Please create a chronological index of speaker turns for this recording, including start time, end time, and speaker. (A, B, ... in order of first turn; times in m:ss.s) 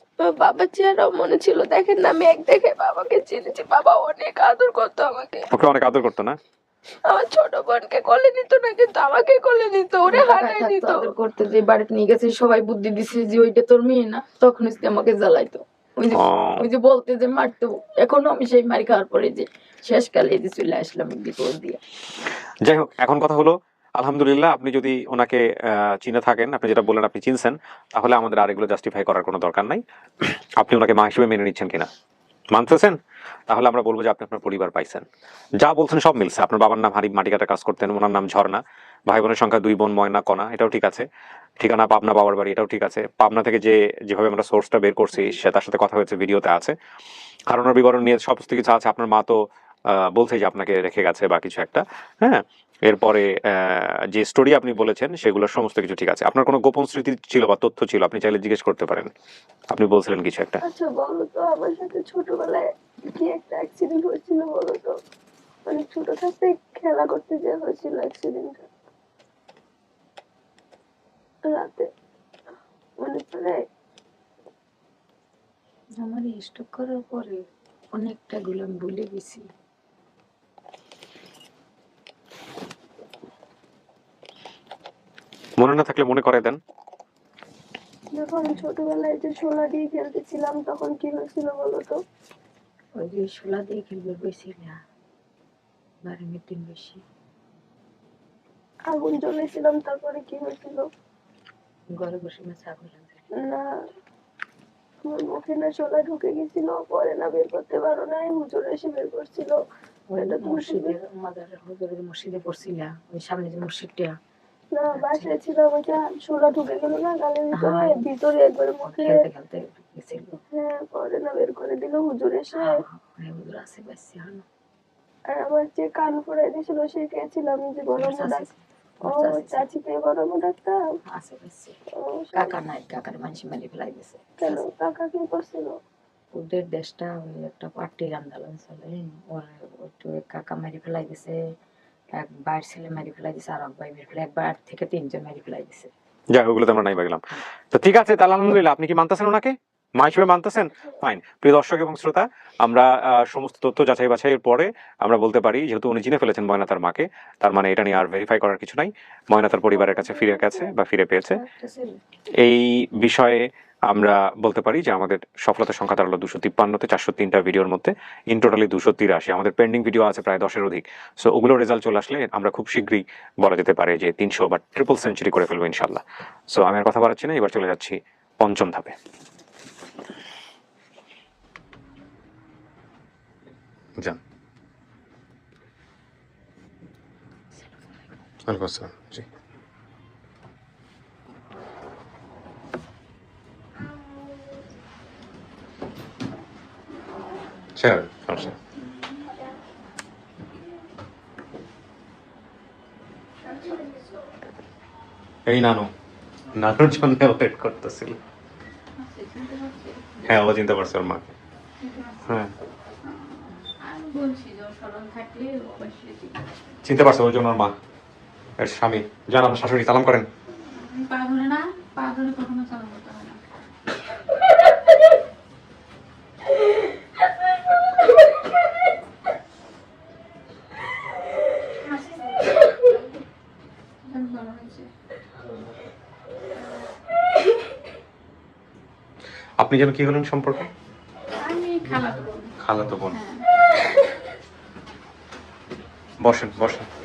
0:00.2-0:05.4 A
0:05.5-0:06.4 B
0:07.1-0:11.0 A
0:10.1-0:21.8 C
0:16.1-0:16.6 B
0:22.6-0:31.9 B
0:32.5-0:41.1 B
0:41.6-0:46.8 B
0:47.5-0:59.1 B
0:59.7-1:00.6 B
1:00.6-1:05.0 A
1:05.7-1:08.6 A
1:11.5-1:11.9 A
1:13.0-1:13.6 A
1:16.0-1:17.4 C
1:17.9-1:19.5 C
1:25.6-1:26.6 B
1:28.2-1:32.0 A
1:33.0-1:34.8 C
1:36.0-1:37.0 C
1:38.9-1:40.8 A
1:41.9-1:43.2 C
1:43.4-1:43.7 A
1:45.0-1:49.6 A
1:50.1-1:54.2 C
1:50.2-1:50.9 A
1:54.7-1:59.2 A
1:54.9-1:55.4 C
1:57.5-1:58.0 C
1:58.8-2:00.4 C
2:00.5-2:02.7 A
2:02.6-2:04.4 C
2:05.3-2:08.5 A
2:08.0-2:09.7 C
2:09.1-2:10.8 A
2:11.1-2:11.8 C
2:12.0-2:12.6 A
2:12.3-2:14.7 C
2:14.4-2:15.8 A
2:16.3-2:21.4 C
2:22.1-2:25.9 C
2:26.3-2:41.4 B
2:39.8-2:40.7 A
2:41.4-2:42.0 C
2:42.4-2:58.9 B
3:08.5-3:09.3 B
3:17.8-3:18.6 B
3:25.5-3:25.9 B
3:26.5-3:28.2 B
3:29.0-3:30.0 D
3:30.2-3:31.3 B
3:31.8-3:32.4 D
3:32.3-3:32.5 B
3:33.0-3:36.5 D
3:36.8-3:37.8 B
3:38.6-3:40.3 B
3:40.7-3:43.4 D
3:51.9-3:52.8 D
3:54.1-3:54.9 D
3:59.6-4:00.7 B
4:01.4-4:02.5 D
4:02.6-4:03.2 B
4:03.1-4:03.4 D
4:06.2-4:06.9 B